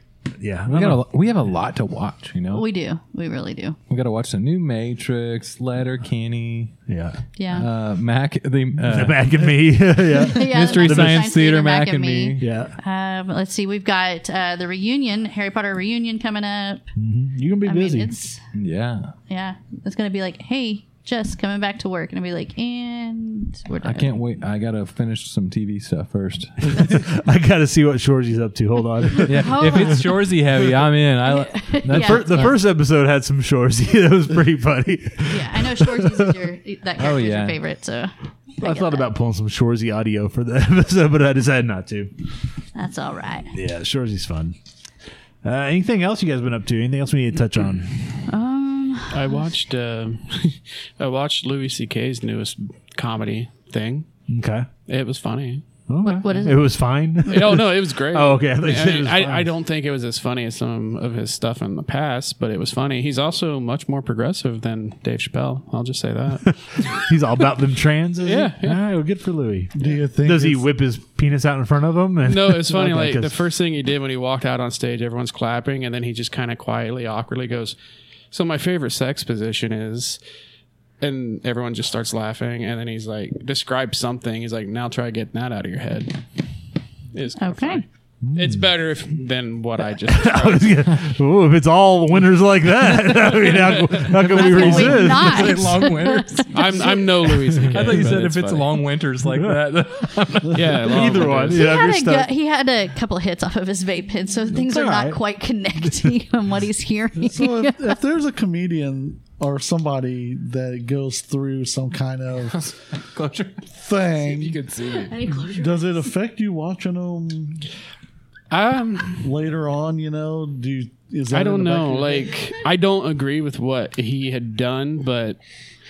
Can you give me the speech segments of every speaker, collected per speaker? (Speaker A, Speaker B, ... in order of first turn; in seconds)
Speaker A: 0.4-1.0, 6.9-7.2, 8.9-11.3, 12.4-12.8, 17.0-18.1, 26.7-29.9, 31.9-36.4, 38.6-42.1, 43.5-44.6, 45.4-48.2, 54.3-54.7, 55.9-59.5, 66.5-69.7, 70.2-73.4, 88.2-88.7, 90.1-95.9, 97.5-98.0, 99.3-99.8, 100.8-102.3, 104.5-105.2, 105.8-106.1
Speaker B: 0.7-2.7, 3.9-6.8, 7.5-9.6, 10.3-12.5, 18.5-19.1, 23.8-27.0, 29.2-32.6, 37.0-37.6, 93.1-96.8, 97.7-101.5, 112.5-113.7, 114.3-115.2
Speaker C: 2.5-3.8, 7.4-7.7, 10.2-16.9, 17.6-18.4, 19.3-24.2, 29.3-30.3, 31.2-32.6, 35.3-39.1, 42.8-43.5, 48.3-49.4, 56.0-56.6, 87.4-87.8, 94.3-97.0, 101.5-108.0, 114.9-116.1
Speaker D: 49.1-54.1, 54.9-55.6, 57.3-66.9, 68.2-68.8, 72.2-77.8, 78.3-80.2, 81.0-86.2, 87.1-90.9, 96.5-98.8, 100.5-101.7, 118.5-119.3, 121.3-125.4
Speaker E: 69.8-70.7, 107.2-112.7, 113.7-114.6, 115.3-117.7, 119.2-122.3